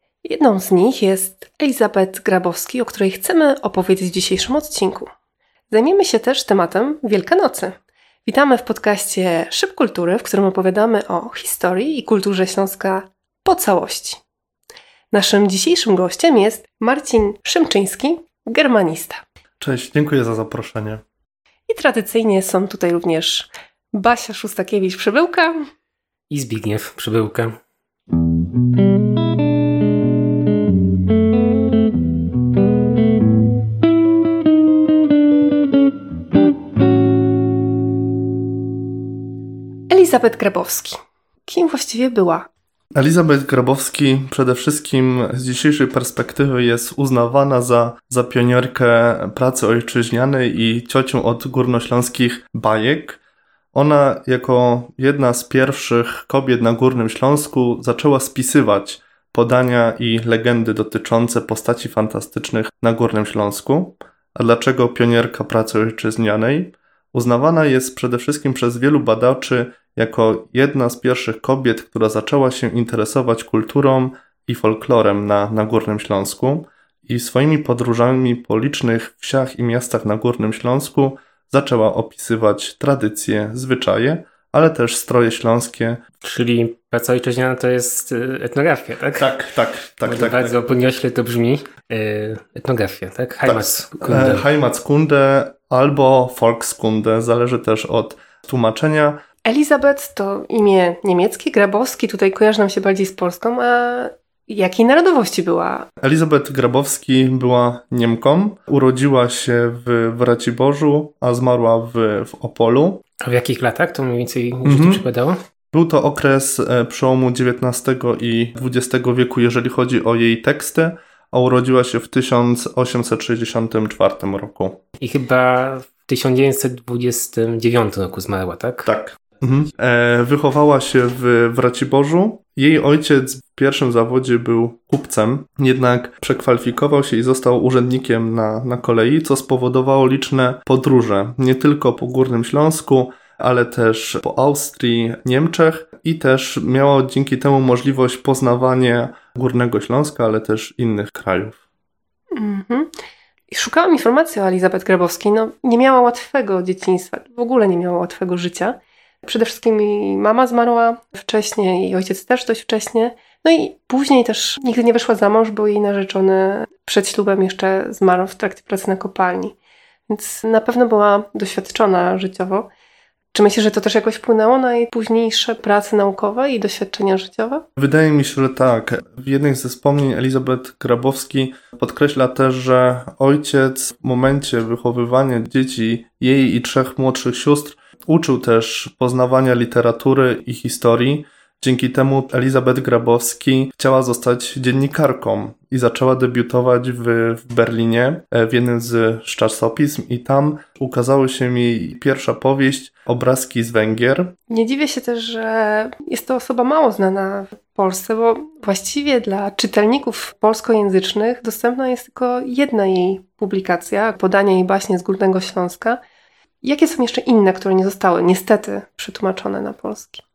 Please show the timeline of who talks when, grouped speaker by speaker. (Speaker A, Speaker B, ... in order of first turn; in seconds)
Speaker A: 0.2-5.1, 5.7-14.2, 15.1-19.2, 21.7-25.7, 39.9-42.5, 99.5-105.9, 152.3-152.9, 153.5-169.6, 170.1-172.7, 173.3-177.7, 204.5-216.0, 216.6-220.2
Speaker B: 19.6-21.0, 43.0-53.2, 53.7-86.0, 89.2-90.6, 93.4-99.2, 106.0-113.0, 114.6-115.0, 115.7-124.8, 128.9-151.6, 177.8-204.3
Speaker C: 26.3-27.6, 86.2-89.3, 90.0-94.5, 113.2-115.4, 125.0-128.9